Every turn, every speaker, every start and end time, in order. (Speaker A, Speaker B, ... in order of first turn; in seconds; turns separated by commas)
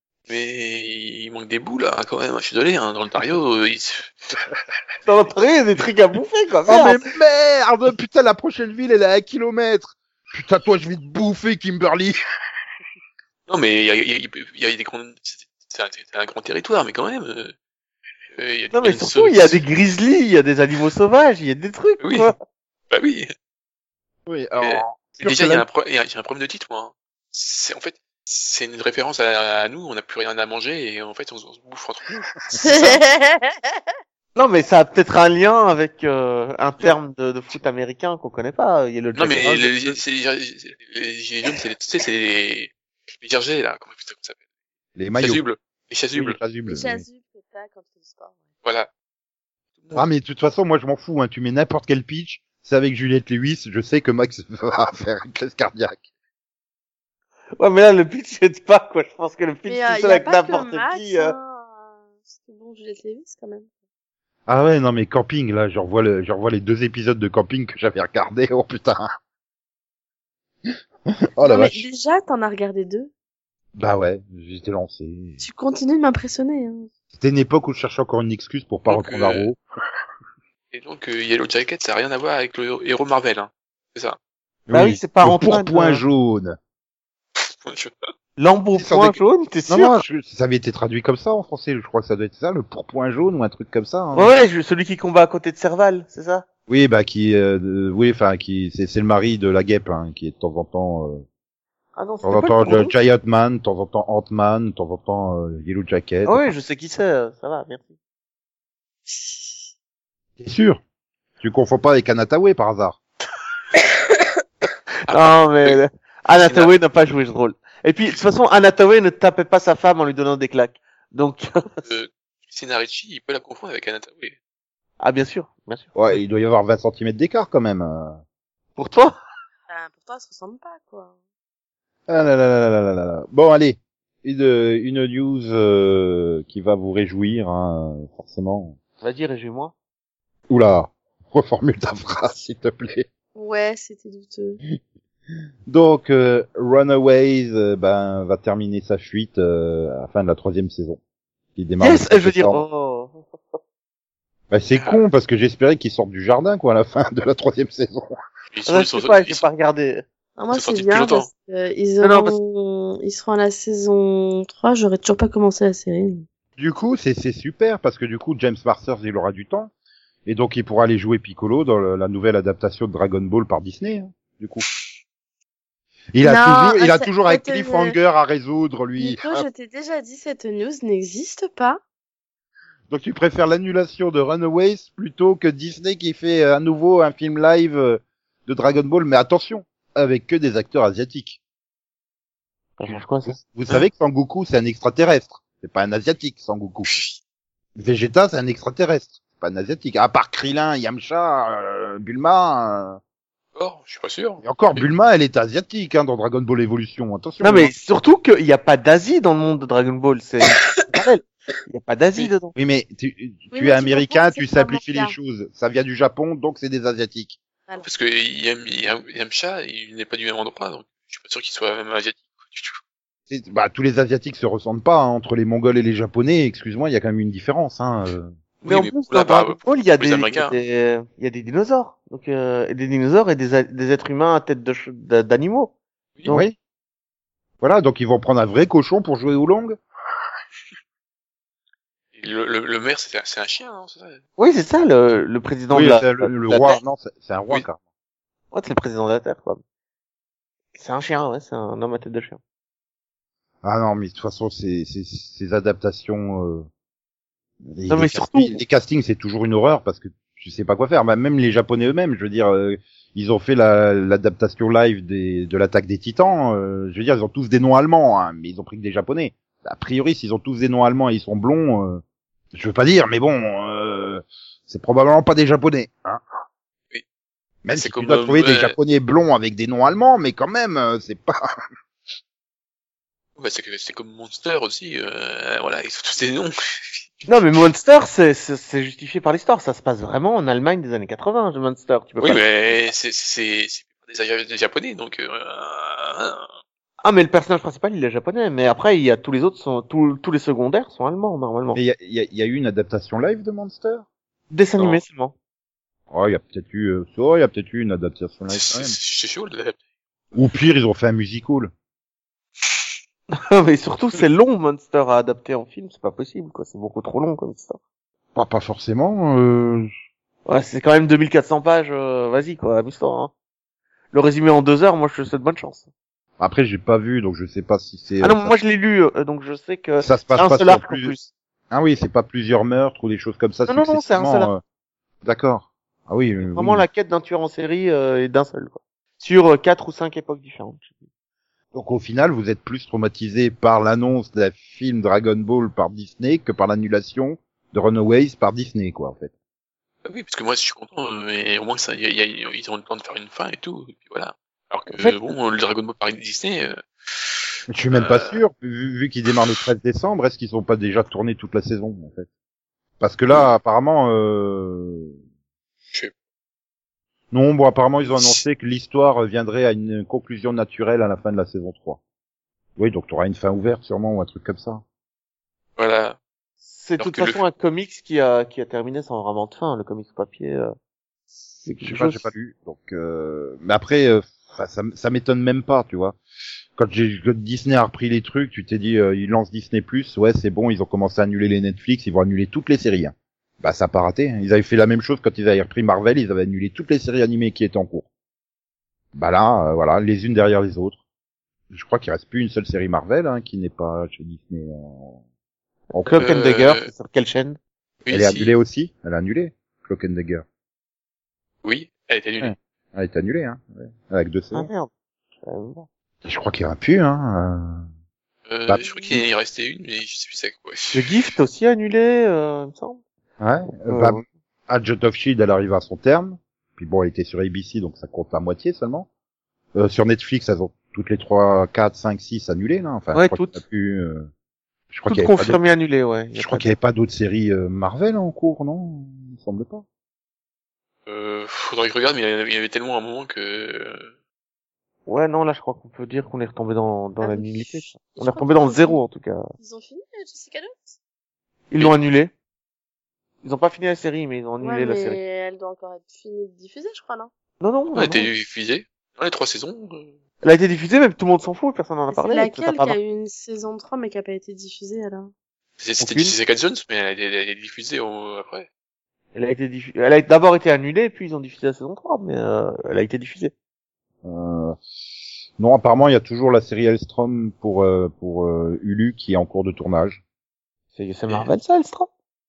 Speaker A: 0.3-4.1, Speaker B: 5.0-7.0, Speaker C: 6.7-12.2, Speaker A: 13.5-17.5, Speaker A: 18.3-19.6, Speaker B: 18.7-22.4, Speaker A: 22.0-22.3, Speaker A: 22.9-23.3, Speaker C: 24.3-25.6, Speaker A: 24.6-33.0, Speaker D: 32.6-33.7, Speaker B: 34.4-39.9, Speaker A: 39.1-44.4, Speaker C: 45.0-45.4, Speaker A: 45.2-46.4, Speaker C: 46.1-47.0, Speaker D: 46.7-48.4, Speaker A: 48.6-48.9, Speaker C: 49.9-56.0, Speaker B: 57.6-61.3, Speaker D: 59.7-63.6, Speaker C: 64.5-69.1, Speaker C: 71.3-71.8, Speaker D: 71.4-73.1, Speaker C: 73.8-75.4, Speaker D: 75.4-76.9, Speaker C: 77.1-79.6, Speaker A: 78.9-79.5, Speaker A: 80.7-84.2, Speaker C: 84.7-86.6, Speaker B: 84.7-86.0, Speaker A: 87.3-87.9, Speaker B: 88.4-90.0, Speaker C: 88.7-94.3, Speaker B: 94.1-96.4, Speaker C: 96.7-101.2, Speaker B: 101.9-102.9, Speaker C: 102.2-106.5, Speaker B: 106.2-107.9, Speaker C: 110.4-110.8, Speaker C: 111.4-113.0, Speaker B: 115.1-121.8, Speaker A: 115.1-115.8, Speaker A: 116.3-116.7, Speaker A: 121.8-124.3, Speaker B: 125.0-125.9, Speaker C: 125.9-128.2, Speaker B: 128.8-129.2, Speaker D: 129.7-131.1, Speaker C: 132.1-138.8, Speaker B: 139.0-139.7, Speaker C: 140.5-143.1, Speaker D: 143.3-144.6, Speaker C: 145.7-151.0, Speaker C: 151.5-152.6, Speaker B: 151.8-153.6, Speaker C: 154.5-158.2, Speaker A: 158.5-159.4, Speaker B: 158.7-160.0, Speaker D: 160.4-166.2, Speaker A: 160.5-161.3, Speaker B: 162.0-162.3, Speaker C: 166.6-169.7, Speaker C: 170.2-174.7, Speaker C: 176.1-179.4, Speaker D: 176.2-178.0, Speaker D: 179.0-181.8, Speaker C: 182.9-191.4, Speaker B: 192.8-193.4, Speaker C: 192.9-196.9, Speaker A: 196.9-197.2, Speaker C: 197.8-203.0, Speaker A: 203.5-204.9, Speaker C: 204.4-207.7, Speaker B: 207.4-212.5, Speaker C: 212.6-217.4, Speaker D: 213.5-215.2, Speaker A: 217.8-222.8, Speaker C: 223.3-228.3, Speaker B: 228.6-235.7, Speaker A: 228.6-230.6, Speaker C: 236.3-236.6, Speaker C: 237.6-239.8, Speaker A: 242.1-244.2, Speaker B: 244.4-246.6, Speaker C: 245.7-247.8, Speaker B: 248.5-249.6, Speaker B: 250.7-252.4, Speaker C: 253.6-256.7, Speaker C: 257.6-276.2, Speaker B: 257.9-258.6, Speaker C: 277.6-281.4, Speaker A: 277.7-278.7, Speaker A: 283.4-287.6, Speaker B: 287.3-292.5, Speaker A: 292.2-296.4, Speaker B: 297.0-301.8, Speaker C: 301.7-304.1, Speaker B: 304.5-305.3, Speaker C: 306.1-308.9, Speaker A: 308.5-309.8, Speaker C: 310.3-311.7, Speaker B: 313.3-317.8, Speaker C: 318.3-319.9, Speaker B: 320.4-323.3, Speaker B: 324.1-325.9, Speaker C: 326.4-328.6, Speaker B: 328.2-331.3, Speaker C: 330.0-331.1, Speaker C: 331.7-334.6, Speaker B: 333.7-334.5, Speaker C: 335.2-336.9, Speaker B: 336.4-340.9, Speaker C: 341.7-349.3, Speaker A: 350.0-356.8, Speaker C: 357.7-362.3, Speaker A: 357.9-358.4, Speaker C: 363.0-365.1, Speaker C: 367.3-372.0, Speaker A: 368.1-368.4, Speaker C: 372.8-374.8, Speaker A: 375.8-376.2, Speaker B: 376.6-380.7, Speaker A: 377.0-377.4, Speaker B: 381.6-382.2, Speaker C: 381.8-386.2, Speaker C: 386.8-398.1, Speaker C: 399.1-401.0, Speaker C: 401.7-405.2, Speaker B: 405.9-407.6, Speaker A: 406.1-406.9, Speaker A: 408.0-408.5, Speaker C: 408.1-410.4, Speaker A: 411.6-412.5, Speaker C: 412.4-414.7, Speaker B: 414.5-414.9, Speaker B: 415.4-415.9, Speaker C: 416.2-417.9, Speaker A: 418.5-421.3, Speaker C: 418.6-419.2, Speaker B: 420.9-423.0, Speaker C: 423.4-429.1, Speaker B: 423.9-424.2, Speaker C: 429.7-434.3, Speaker B: 433.1-433.6, Speaker C: 434.9-435.6, Speaker B: 435.1-436.7, Speaker C: 436.3-439.8, Speaker A: 441.1-444.1, Speaker B: 445.1-449.4, Speaker D: 447.2-449.0, Speaker D: 449.6-450.9, Speaker B: 451.7-452.3, Speaker B: 453.4-455.2, Speaker D: 454.6-457.3, Speaker B: 457.6-458.3, Speaker A: 457.9-460.1, Speaker B: 460.4-463.0, Speaker D: 462.1-465.3, Speaker A: 465.8-468.7, Speaker B: 466.0-466.3, Speaker B: 469.3-473.5, Speaker C: 474.2-474.8, Speaker C: 475.6-480.2, Speaker B: 480.9-482.1